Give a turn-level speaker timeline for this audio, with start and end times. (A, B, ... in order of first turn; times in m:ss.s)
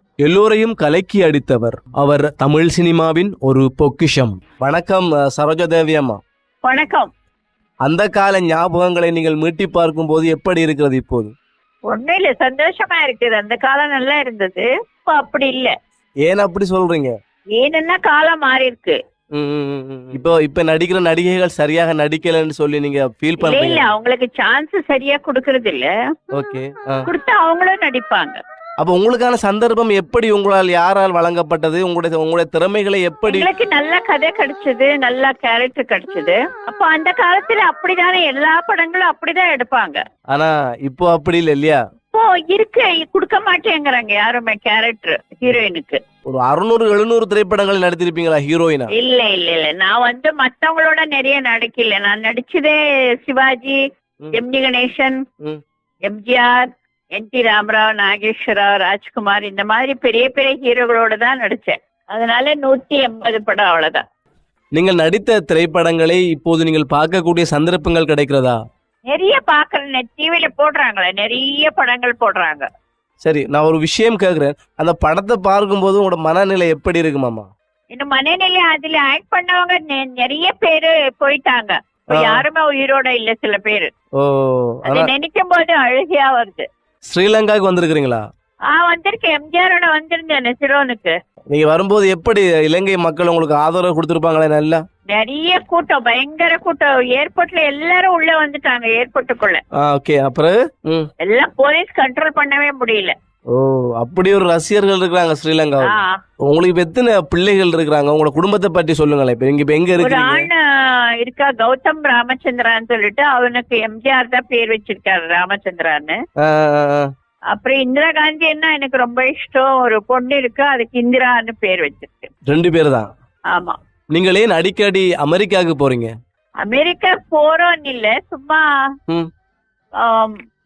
0:00.2-0:06.2 A
0:06.6-0:07.1 B
0:07.8-0:11.3 A
0:11.9-0:15.7 B
0:16.2-0:17.1 A
0:17.6-0:19.0 B
0:19.4-0:23.9 A
0:23.4-0:25.9 B
0:26.3-0:27.1 A
0:27.1-0:28.4 B
0:28.8-0:33.5 A
0:33.3-0:40.0 B
0:40.3-0:41.8 A
0:42.1-0:46.0 B
0:46.3-0:48.9 A
0:48.9-0:53.8 B
0:54.3-0:55.2 B
0:56.1-1:04.0 B
1:04.8-1:08.6 A
1:09.1-1:12.7 B
1:13.2-1:17.5 A
1:17.9-1:23.9 B
1:22.1-1:22.4 A
1:24.2-1:25.1 A
1:24.9-1:26.7 B
1:27.1-1:28.2 A
1:28.7-1:31.1 B
1:31.5-1:34.8 A
1:35.1-1:39.6 B
1:39.8-1:41.1 A
1:41.2-1:43.1 B
1:43.5-1:50.5 A
1:45.8-1:46.2 B
1:50.0-1:50.6 B
1:51.2-1:56.2 B
1:56.4-1:57.1 A
1:57.5-2:02.3 B
2:02.5-2:03.1 A
2:03.5-2:03.8 B
2:04.1-2:06.1 A
2:06.6-2:08.6 B
2:10.0-2:10.4 B